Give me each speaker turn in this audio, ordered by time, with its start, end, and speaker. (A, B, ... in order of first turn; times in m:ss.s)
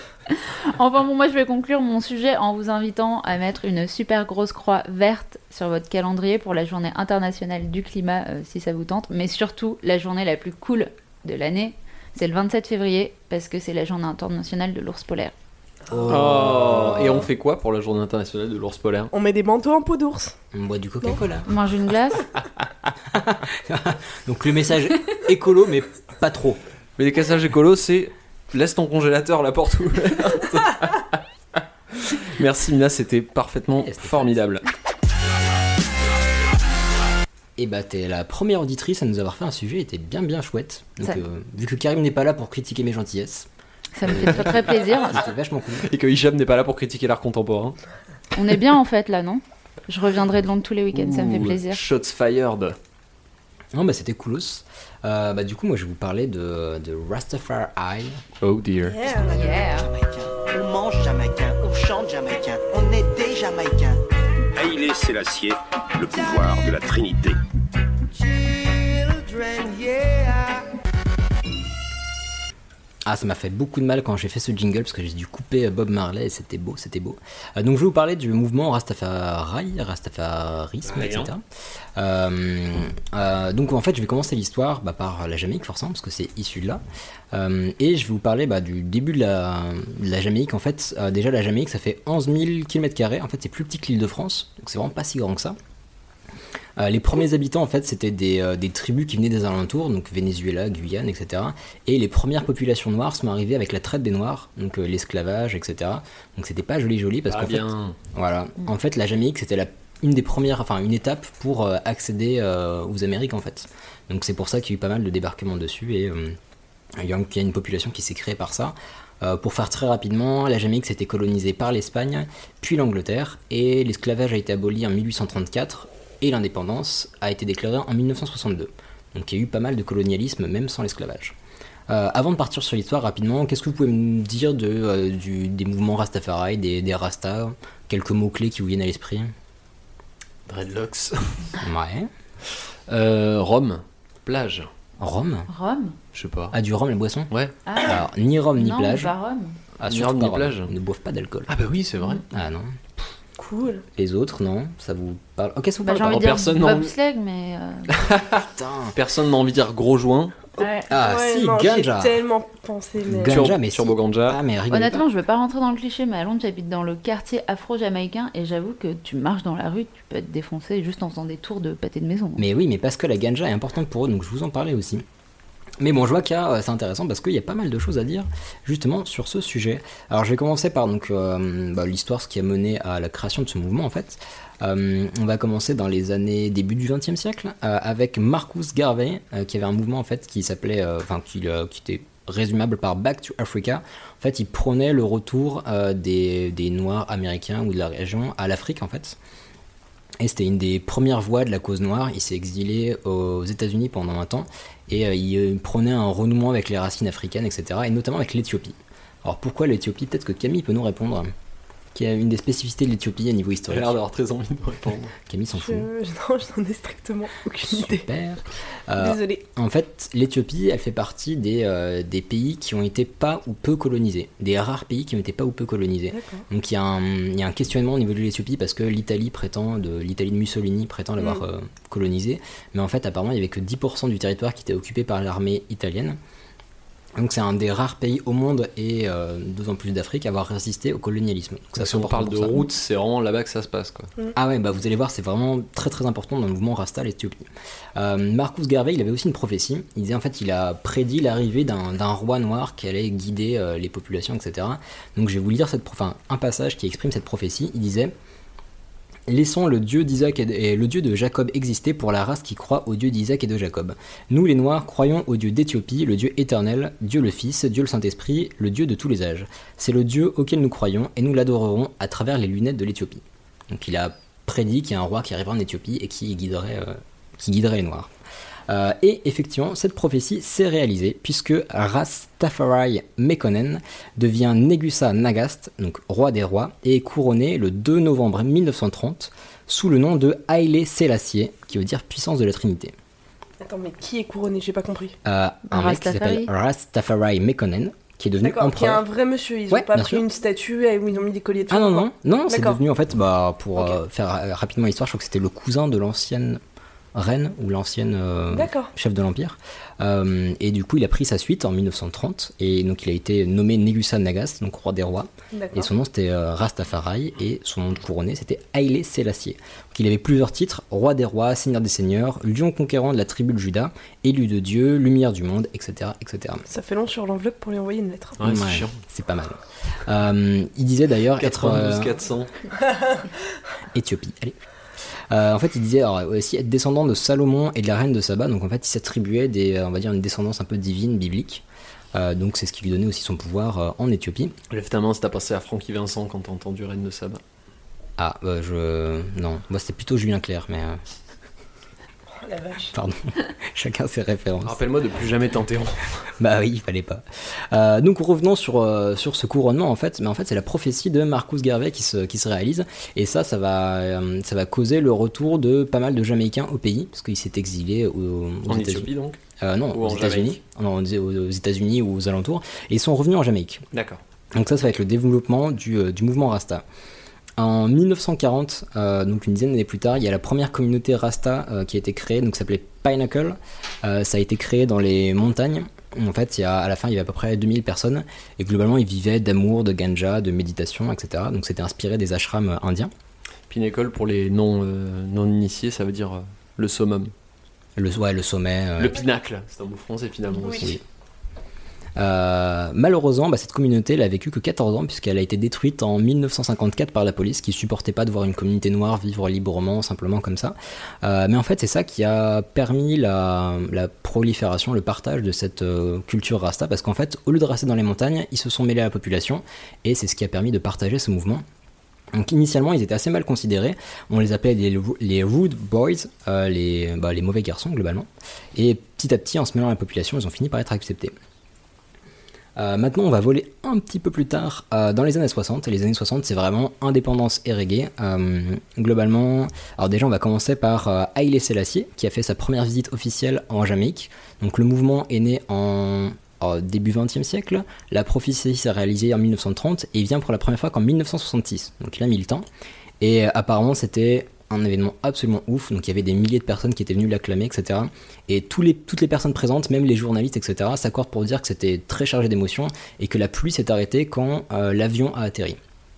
0:00.3-0:15.3 A
0:15.9-0:17.2 B
0:16.1-0:19.1 C
0:19.1-0:20.3 D
0:20.5-0:21.4 B
0:21.4-0:22.2 A
0:23.1-0:26.6 B
0:27.0-0:31.2 C
0:32.0-0:34.6 C
0:33.8-0:34.3 B
0:37.6-0:43.5 B
0:43.9-0:45.2 A
0:44.1-0:45.9 B
0:45.8-0:47.8 C
0:48.3-0:51.8 A
0:50.9-0:52.7 C
0:53.7-0:58.2 B
0:58.4-0:59.0 C
0:58.8-0:59.4 D
0:59.0-1:04.0 E
0:59.3-0:59.9 A
1:04.5-1:07.4 F
1:08.3-1:10.6 E
1:13.0-1:21.4 B
1:20.8-1:21.3 C
1:22.0-1:35.6 B
1:36.8-1:56.4 B
1:47.3-1:48.0 C
1:57.0-2:11.3 B
2:11.9-2:19.3 B
2:20.5-2:21.6 C
2:21.6-2:22.1 B
2:22.9-2:24.7 C
2:25.0-2:25.5 B
2:25.5-2:26.0 A
2:26.1-2:26.5 C
2:26.5-2:29.1 B
2:27.6-2:29.6 A
2:29.8-2:31.5 B
2:29.8-2:30.7 C
2:31.5-2:32.2 C
2:32.3-2:32.8 B
2:33.4-2:33.8 D
2:34.0-2:36.2 B
2:35.8-2:38.0 A
2:36.0-2:36.9 C
2:37.9-2:38.4 C
2:38.4-2:39.0 B
2:38.9-2:40.4 C
2:40.6-2:40.9 A
2:40.9-2:42.2 B
2:41.0-2:43.4 D
2:43.1-2:45.0 B
2:43.3-2:44.4 C
2:44.7-2:52.4 A
2:52.4-2:55.0 B
2:55.8-3:19.2 B
3:20.2-3:31.3 B
3:31.9-3:33.9 B
3:33.7-3:35.1 C
3:35.2-3:35.9 B
3:35.5-3:38.1 D
3:37.7-3:56.2 B
3:39.0-3:39.4 D
3:46.1-3:46.4 D
3:51.2-3:51.4 D
3:57.2-4:02.6 B
4:01.8-4:04.1 C
4:04.3-4:18.1 B
4:19.3-4:38.1 B
4:38.7-4:52.9 B
4:53.6-4:55.2 D
4:55.2-4:59.0 B
4:55.7-4:56.5 A
4:58.4-5:02.8 D
4:59.7-5:00.2 B
5:01.7-5:06.6 B
5:07.1-5:26.6 B
5:08.5-5:08.9 D
5:15.5-5:15.9 D
5:26.7-5:28.4 D
5:28.4-5:29.0 C
5:28.4-5:32.1 B
5:31.4-5:32.5 C
5:33.9-5:34.6 B
5:35.3-5:44.5 B
5:44.7-5:47.4 C
5:48.2-5:51.0 B
5:52.3-5:52.9 D
5:52.9-5:54.8 B
5:54.6-5:56.2 C
5:56.4-6:09.1 B
6:08.7-6:09.4 C
6:09.6-6:13.8 B
6:09.9-6:10.6 C
6:13.9-6:14.2 C
6:14.5-6:16.8 B
6:17.6-6:33.1 B
6:33.7-6:37.3 C
6:38.0-6:39.2 B
6:39.0-6:41.0 C
6:40.6-6:40.9 D
6:42.2-7:01.6 B
7:02.3-7:11.3 B
7:12.8-7:32.6 B
7:33.2-7:45.8 B